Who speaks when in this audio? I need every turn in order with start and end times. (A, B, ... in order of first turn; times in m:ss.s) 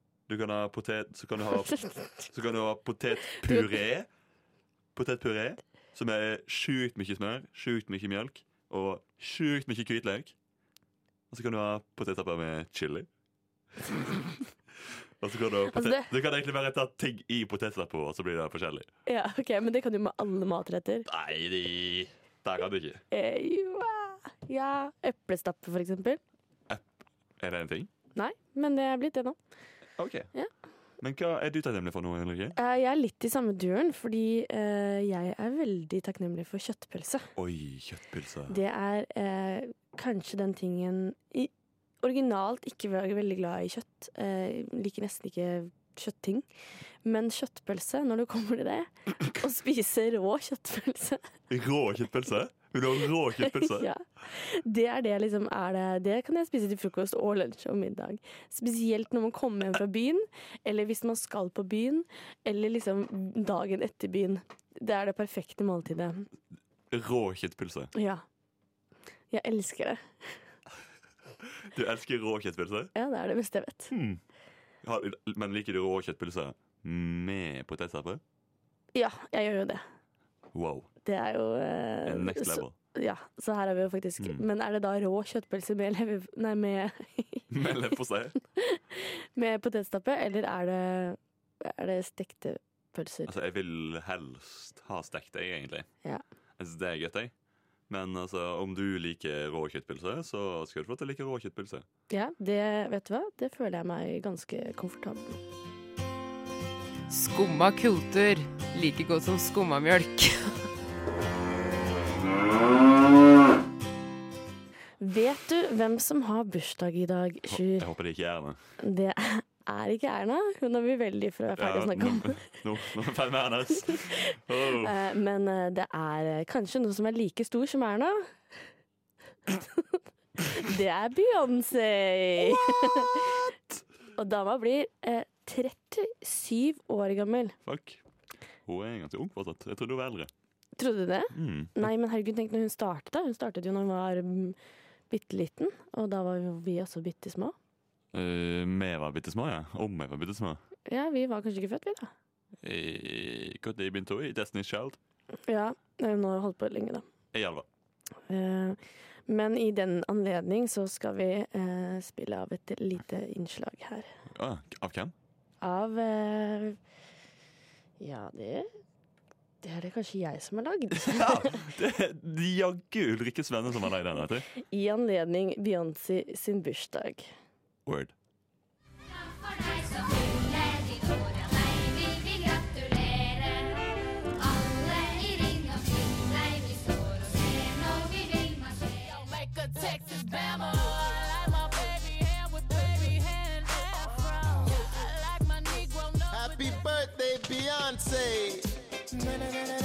0:00.3-0:01.8 A
0:01.5-0:02.1 B
0:02.3-0:04.1 A
0:03.4-0:03.7 B
0:04.9-0:10.3 A
0:11.3-0:13.1 A
0:15.2-0:18.9 A
0:15.7-0:16.1 B
0:19.0-0:21.1 B
0:21.0-0:23.0 A
0:23.1-0:26.2 B
0:26.7-0:27.9 A
0:28.2-0:29.4 B
0:30.0-0:30.3 A
0:31.0-0:32.6 A
0:32.6-0:37.3 B
0:37.4-0:38.6 A
0:38.5-0:41.5 B
0:42.0-0:46.4 B
0:47.0-0:51.2 B
0:51.5-0:53.9 A
0:53.4-1:06.3 B
1:06.9-1:07.9 A
1:07.9-1:08.2 B
1:09.3-1:10.3 B
1:11.4-1:12.9 A
1:12.9-1:13.9 B
1:13.9-1:14.2 A
1:14.8-1:18.2 A
1:18.9-1:19.8 B
1:20.5-1:20.9 A
1:21.0-1:27.5 B
1:22.0-1:22.7 A
1:27.5-1:28.4 A
1:28.6-1:33.3 B
1:33.2-1:35.9 A
1:36.6-1:37.3 A
1:37.9-1:41.8 A
1:42.1-1:45.4 B
1:47.1-1:50.6 C
1:55.0-1:57.9 B
1:57.5-1:58.6 A
1:58.8-2:02.4 B
2:01.6-2:05.0 A
2:03.9-2:04.2 B
2:04.8-2:08.3 B
2:09.5-2:09.8 B
2:10.4-2:13.5 B
2:12.4-2:13.2 A
2:14.2-2:17.6 B
2:17.6-2:18.0 A
2:18.6-2:20.3 A
2:20.8-2:24.6 B
2:21.3-2:21.9 A
2:25.1-2:27.5 B
2:28.1-2:30.6 A
2:30.9-2:32.1 B
2:32.6-2:35.0 A
2:35.5-2:37.0 B
2:37.3-2:37.6 A
2:38.3-2:44.1 B
2:44.3-2:45.1 A
2:45.6-2:46.8 B
2:48.0-2:48.7 B
2:49.6-2:51.6 B
2:51.0-2:54.4 A
2:54.6-2:57.3 B
2:57.8-2:58.1 A
3:06.6-3:16.8 D
3:16.3-3:18.7 E